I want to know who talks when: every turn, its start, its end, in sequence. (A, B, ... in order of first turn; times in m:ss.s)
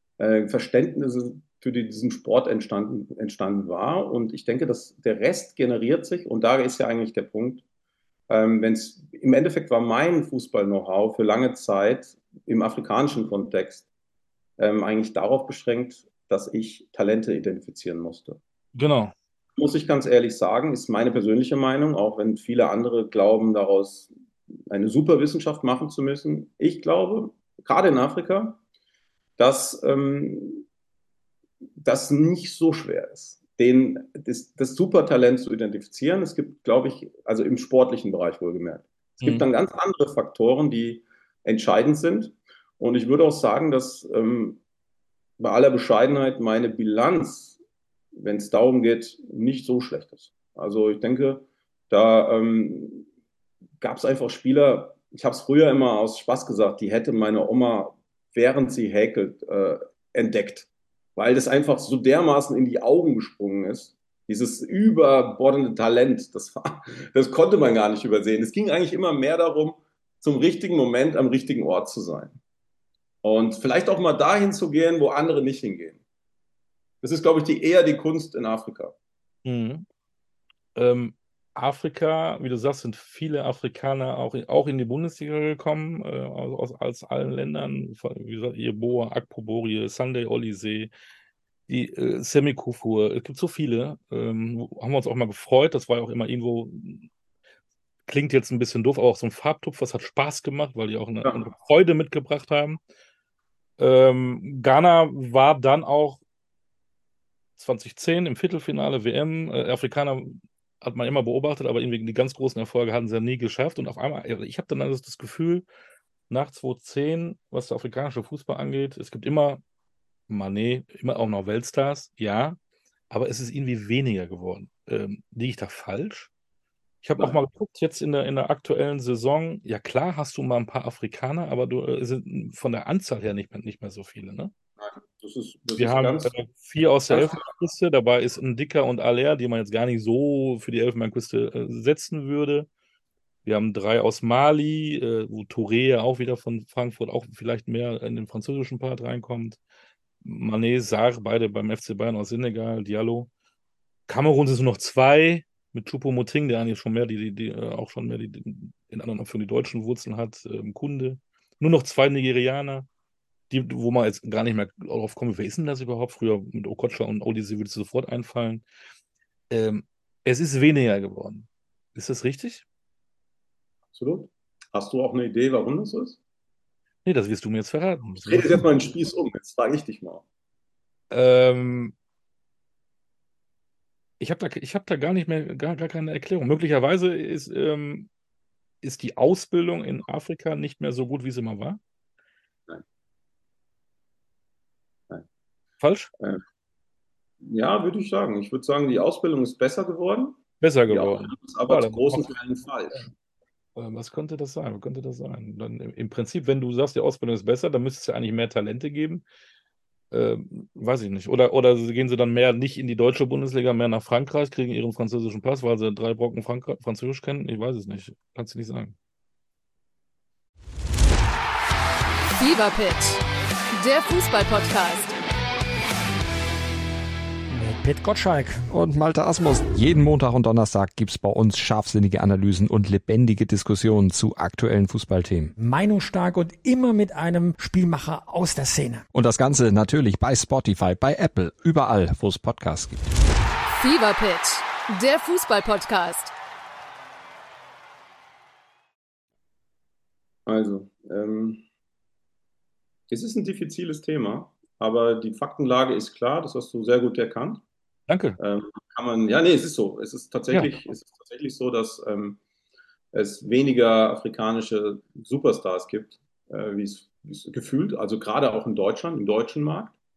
0:00.2-0:07.6 A
0:08.3-0:13.9 A
0:14.6-0:18.4 A
0:18.7-0:19.1 B
0:19.6-0:24.1 A
0:24.7-0:28.6 A
0:29.4-0:30.6 A
0:31.8-0:44.6 A
0:45.4-0:47.6 A
0:48.1-0:53.1 A
0:53.8-1:12.4 A
1:13.2-1:16.0 A
1:17.0-1:18.9 A
1:19.4-1:19.8 B
1:20.8-1:30.9 B
1:31.7-1:37.0 B
1:38.1-1:42.8 B
1:43.8-1:46.2 B
1:47.6-1:55.6 B
1:56.3-1:59.6 B
2:00.3-2:02.6 B
2:03.1-2:06.3 B
2:07.0-2:14.5 B
2:14.8-2:16.3 A
2:15.8-2:22.7 B
2:17.1-2:17.4 A
2:23.4-2:29.6 B
2:30.2-2:33.3 B
2:34.1-2:42.9 B
2:43.5-2:48.6 B
2:49.5-2:52.6 B
2:53.9-2:56.2 A
2:57.0-2:58.6 B
2:58.2-3:00.2 A
3:01.1-3:01.9 B
3:04.2-3:08.1 B
3:08.8-3:11.8 B
3:15.8-3:16.1 B
3:17.4-3:23.1 A
3:20.6-3:22.3 B
3:23.8-3:29.2 B
3:30.1-3:38.9 B
3:42.4-3:43.2 C
3:43.7-3:45.2 C
3:47.5-3:48.6 D
3:48.7-3:55.5 E
3:55.6-3:59.0 D
3:59.1-4:03.1 E
4:03.7-4:06.3 C
4:10.4-4:11.6 A
4:13.1-4:17.6 A
4:18.1-4:18.4 B
4:18.4-4:22.4 A
4:23.1-4:29.9 A